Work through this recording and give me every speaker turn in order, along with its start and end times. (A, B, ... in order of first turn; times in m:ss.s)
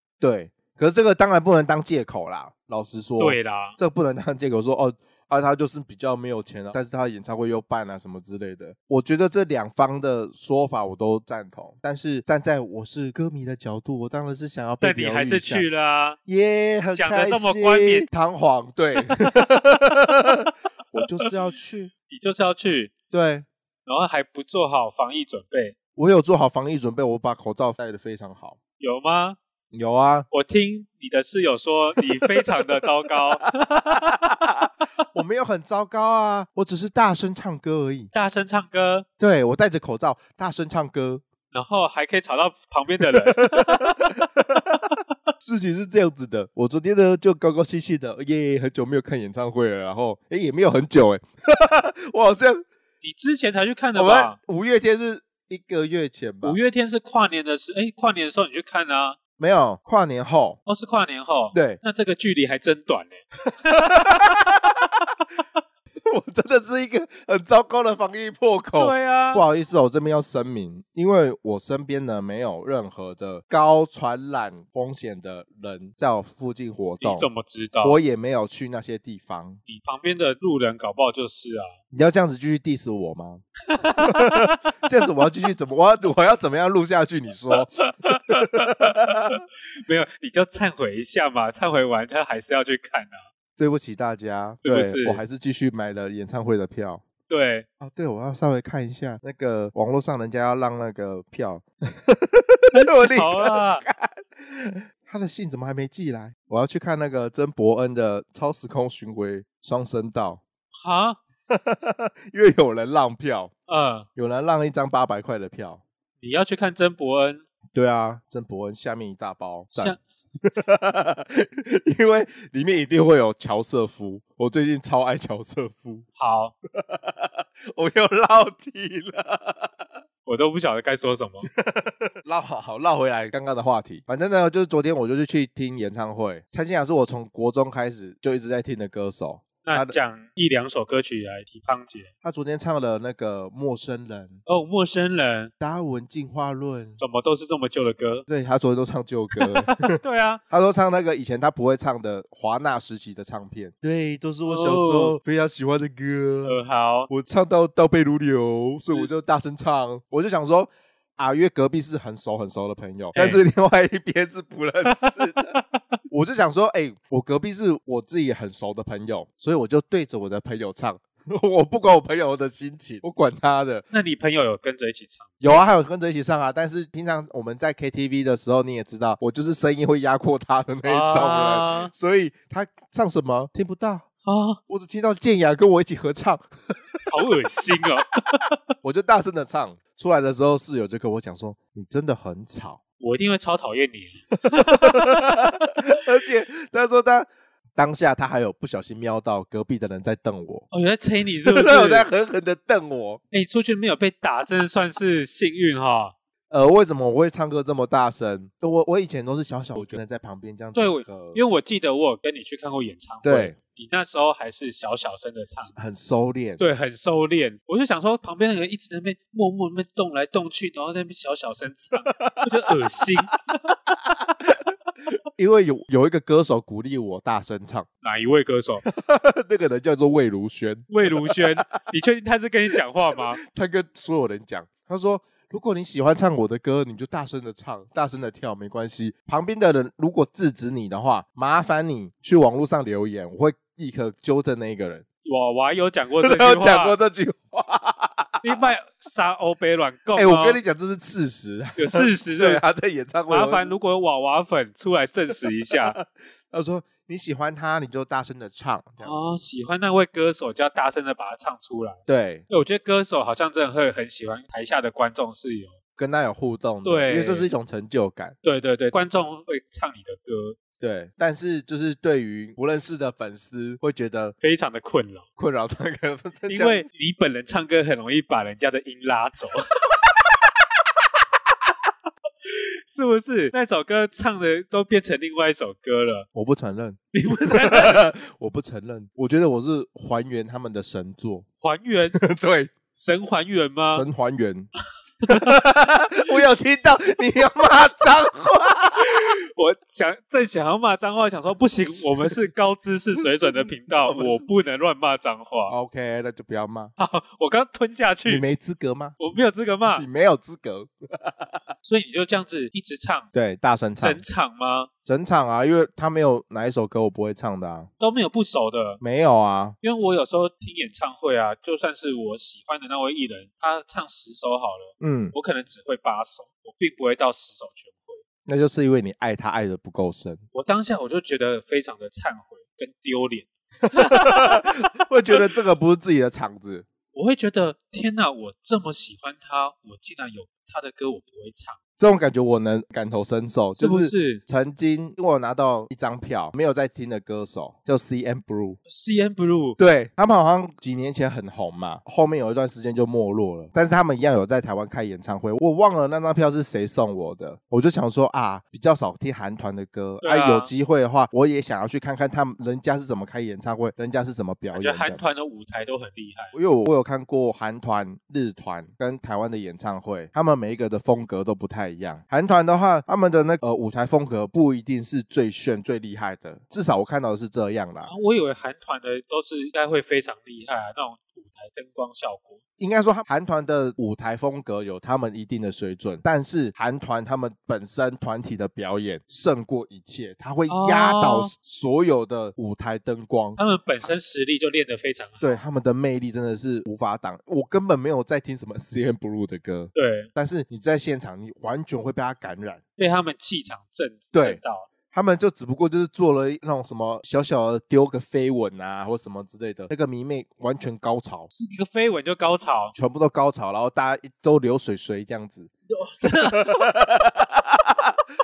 0:00.2-0:15.7 A
0:03.2-0:03.8 B
0:14.8-0:16.2 B
0:16.3-0:21.9 A
0:17.0-0:18.1 B
0:22.1-0:22.9 B
0:23.1-0:23.5 A
0:23.9-0:25.8 B
0:26.0-0:28.6 A
0:28.8-0:29.4 B
0:29.7-0:30.3 A
0:30.3-0:34.4 B
0:32.0-0:38.1 A
0:38.1-0:39.1 B
0:39.2-0:41.2 A
0:41.5-0:44.3 B
0:43.0-0:52.7 A
0:53.0-0:54.4 B
0:54.0-0:56.6 A
0:56.4-0:59.2 B
0:59.4-1:00.6 A
1:00.7-1:04.4 B
1:01.5-1:01.8 A
1:03.5-1:04.9 A
1:06.1-1:17.3 A
1:08.8-1:09.4 B
1:17.0-1:18.0 B
1:17.8-1:19.6 A
1:19.7-1:21.7 B
1:21.9-1:23.4 A
1:23.7-1:24.6 B
1:24.0-1:29.4 A
1:27.6-1:33.2 B
1:33.6-1:37.0 A
1:34.6-1:35.2 B
1:37.3-1:37.7 B
1:37.8-1:50.4 A
1:42.7-1:43.8 B
1:50.7-1:51.2 B
1:51.5-1:53.5 A
1:53.7-1:54.1 B
1:54.2-1:55.8 A
1:56.2-1:57.4 B
1:57.7-2:06.1 A
2:06.2-2:06.6 B
2:06.8-2:09.8 A
2:10.3-2:11.5 B
2:11.5-2:20.0 A
2:19.6-2:22.1 B
2:22.2-2:24.4 A
2:24.5-2:25.5 B
2:25.6-2:27.0 A
2:27.0-2:28.3 B
2:28.3-2:29.9 A
2:29.3-2:30.4 B
2:30.5-2:45.6 A
2:34.5-2:35.2 B
2:36.4-2:37.1 B
2:43.2-2:43.4 B
2:44.9-2:46.0 B
2:46.1-2:53.9 A
2:53.9-2:55.6 B
2:55.4-3:04.1 A
3:00.8-3:01.9 B
3:04.2-3:04.6 B
3:04.7-3:07.0 A
3:07.1-3:08.6 B
3:08.8-3:12.8 A
3:13.0-3:15.6 B
3:14.4-3:20.7 A
3:20.7-3:22.1 B
3:21.4-3:23.2 A
3:23.3-3:26.2 B
3:26.5-3:31.4 A
3:30.8-3:35.7 B
3:33.2-3:33.6 A
3:35.7-3:36.6 A
3:36.6-3:43.8 B
3:42.0-3:43.0 A
3:45.4-3:47.9 A
3:48.0-3:48.8 B
3:48.8-3:51.8 A
3:50.9-3:53.4 B
3:53.2-4:05.0 A
4:05.2-4:07.0 B
4:06.2-4:08.5 A
4:08.4-4:10.6 B
4:10.2-4:13.7 A
4:11.8-4:12.6 B
4:13.3-4:16.0 B
4:15.4-4:19.4 A
4:19.0-4:25.8 B
4:22.1-4:22.4 A
4:26.0-4:28.4 A
4:26.8-4:27.5 B
4:28.4-4:30.6 B
4:30.8-4:34.4 A
4:34.4-4:35.2 B
4:35.4-4:36.9 A
4:36.5-4:39.6 B
4:42.5-4:46.3 B
4:46.3-4:51.5 A
4:47.2-4:48.1 B
4:51.6-4:52.2 B
4:52.1-4:52.7 A
4:52.9-4:54.0 B
4:53.9-4:54.7 A
4:55.2-4:59.2 A
4:55.2-4:55.5 B
4:59.0-5:05.7 B
5:03.4-5:04.4 A
5:05.7-5:06.9 A
5:07.0-5:08.4 B
5:08.3-5:09.2 A
5:09.2-5:10.1 B
5:09.9-5:11.6 A
5:11.8-5:13.3 B
5:13.3-5:14.2 A
5:14.0-5:14.9 B
5:15.0-5:17.9 A
5:18.0-5:19.0 B
5:19.0-5:19.8 A
5:19.8-5:28.2 B
5:25.0-5:25.4 A
5:28.5-5:30.4 A
5:30.5-5:34.7 B
5:33.8-5:36.9 A
5:37.1-5:41.8 B
5:42.0-5:48.8 A
5:43.8-5:44.4 B
5:48.9-5:49.8 B
5:49.8-6:05.2 A
6:00.2-6:00.7 B
6:04.7-6:06.6 B
6:06.5-6:18.1 A
6:18.1-6:22.6 B
6:22.8-6:33.6 A
6:30.7-6:31.5 B
6:33.6-6:35.6 B
6:35.4-6:42.8 A
6:39.9-6:40.3 B
6:43.0-6:44.9 B
6:44.3-6:51.5 A
6:51.5-6:53.0 B
6:53.0-6:58.2 A
6:56.0-6:56.9 B